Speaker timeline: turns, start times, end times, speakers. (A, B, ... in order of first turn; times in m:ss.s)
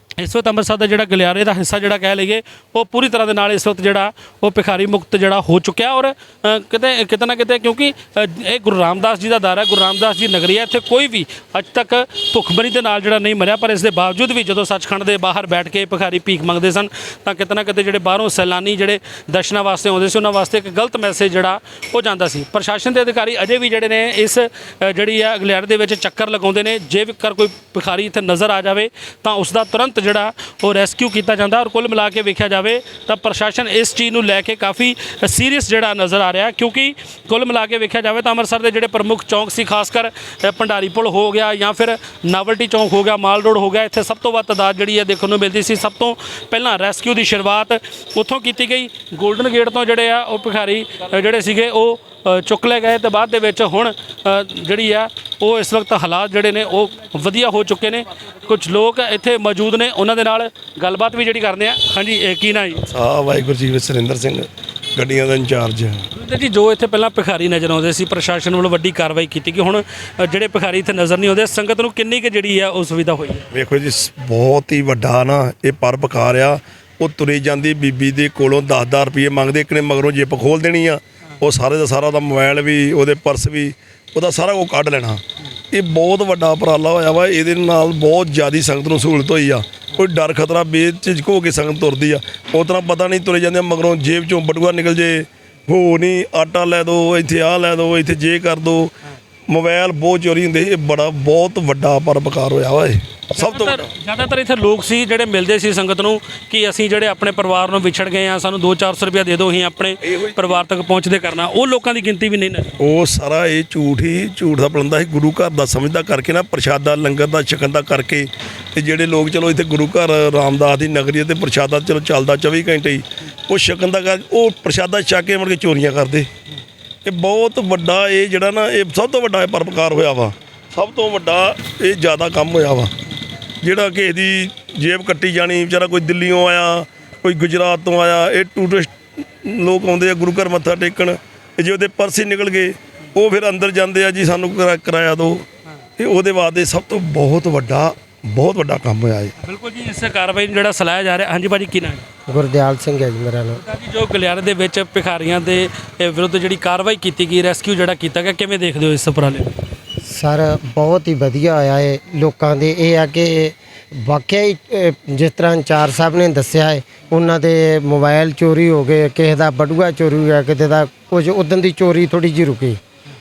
0:00.2-1:02.8 A
1:02.9-1:06.1 B
1:06.1-1:13.4 A
1:13.5-1:38.9 B
1:39.5-1:43.9 B
1:43.4-1:52.8 A
1:50.0-1:50.6 B
1:52.8-2:06.3 B
2:07.0-2:12.9 B
2:13.6-2:25.4 B
2:26.0-2:29.3 B
2:29.4-2:32.0 A
2:32.3-2:33.6 C
2:33.6-2:39.6 A
2:40.1-2:52.8 C